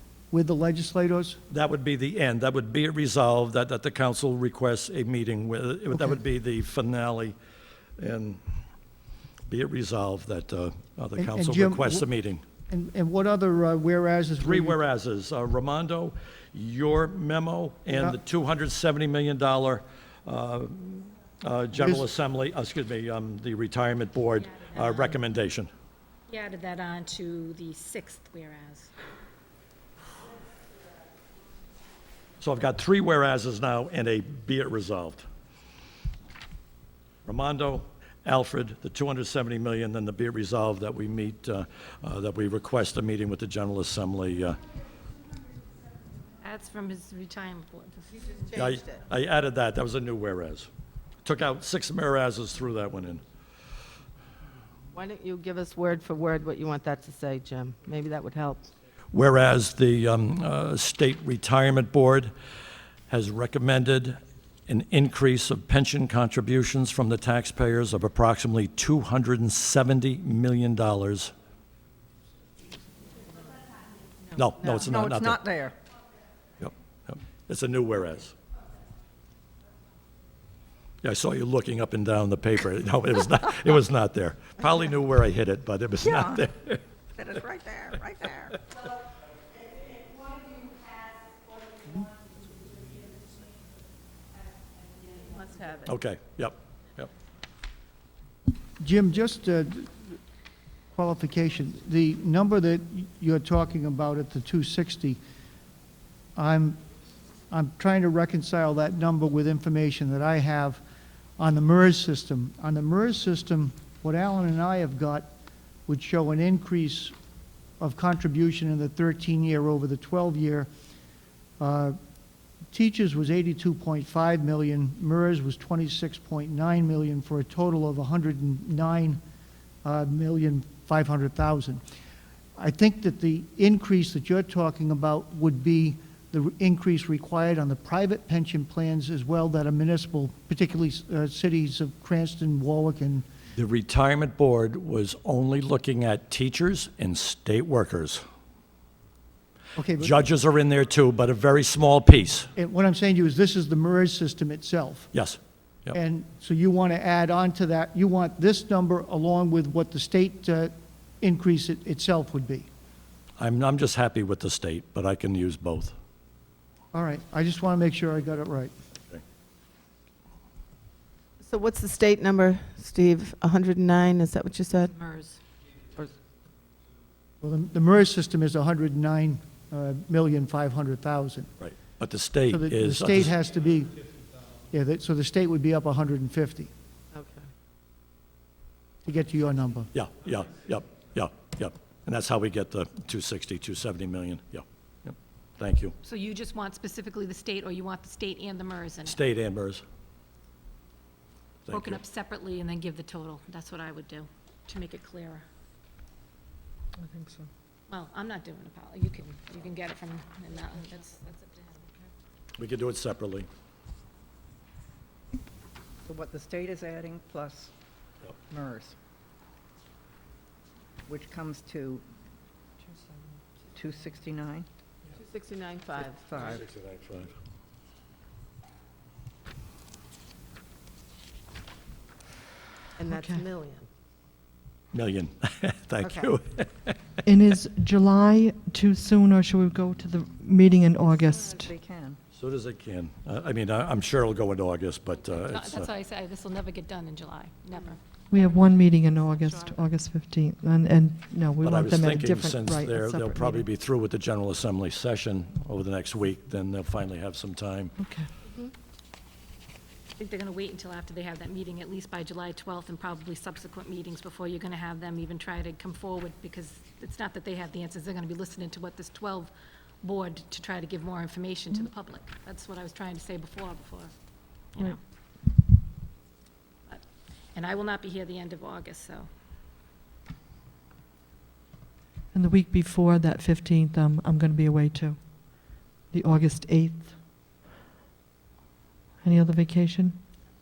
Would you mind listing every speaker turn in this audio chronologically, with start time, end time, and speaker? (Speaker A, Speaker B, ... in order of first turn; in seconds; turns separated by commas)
Speaker A: 0.3-1.4, Speaker B: 1.5-7.4, Speaker B: 8.0-8.4, Speaker B: 9.5-12.4, Speaker A: 11.2-12.1, Speaker A: 12.7-14.8, Speaker B: 14.4-25.7, Speaker A: 17.9-18.2, Speaker A: 21.8-22.1, Speaker C: 24.4-25.2, Speaker C: 26.3-28.9, Speaker B: 32.4-35.3, Speaker B: 37.2-44.6, Speaker C: 46.4-48.6, Speaker B: 48.6-50.7, Speaker B: 51.2-53.2, Speaker D: 54.9-58.7, Speaker B: 59.1-62.3, Speaker B: 63.1-71.3, Speaker B: 74.3-75.4, Speaker E: 74.8-75.8, Speaker B: 76.6-78.3, Speaker B: 81.0-86.8, Speaker E: 86.0-86.5, Speaker E: 87.2-88.6, Speaker D: 95.2-95.9, Speaker B: 95.9-97.1, Speaker A: 98.8-100.2, Speaker A: 100.9-105.2, Speaker A: 106.4-106.8, Speaker A: 107.5-110.8, Speaker A: 111.4-115.3, Speaker A: 115.9-117.2, Speaker A: 117.8-120.7, Speaker A: 121.6-122.0, Speaker A: 122.7-129.2, Speaker A: 129.8-131.8, Speaker A: 132.6-143.3, Speaker B: 143.6-148.2, Speaker A: 149.8-150.1, Speaker B: 150.0-152.5, Speaker A: 152.6-155.1, Speaker B: 155.1-156.0, Speaker A: 155.9-162.7, Speaker B: 163.4-165.9, Speaker A: 166.9-168.7, Speaker D: 171.4-174.9, Speaker C: 174.9-175.4, Speaker A: 177.4-181.5, Speaker B: 181.6-183.3, Speaker A: 182.5-184.0, Speaker A: 184.7-186.7, Speaker D: 187.1-187.5, Speaker A: 189.1-189.9, Speaker B: 189.9-195.9, Speaker C: 196.0-199.2, Speaker B: 199.1-199.8, Speaker B: 201.7-202.0, Speaker C: 201.7-205.5, Speaker F: 207.0-207.5, Speaker C: 207.9-211.9, Speaker B: 212.6-213.5, Speaker E: 216.1-217.7, Speaker E: 218.5-218.9, Speaker E: 221.1-222.1, Speaker E: 223.7-224.7, Speaker D: 225.1-226.2, Speaker E: 226.1-226.6, Speaker B: 226.4-227.3, Speaker D: 233.0-233.9, Speaker F: 233.1-233.4, Speaker B: 234.9-237.0, Speaker D: 236.0-236.3, Speaker F: 237.3-241.7, Speaker E: 241.0-242.2, Speaker B: 242.3-245.9, Speaker C: 245.4-249.8, Speaker F: 248.3-253.7, Speaker B: 251.6-257.9, Speaker F: 258.0-258.3, Speaker D: 258.5-258.7, Speaker C: 260.2-275.0, Speaker C: 276.9-279.3, Speaker F: 282.3-287.2, Speaker F: 289.2-290.2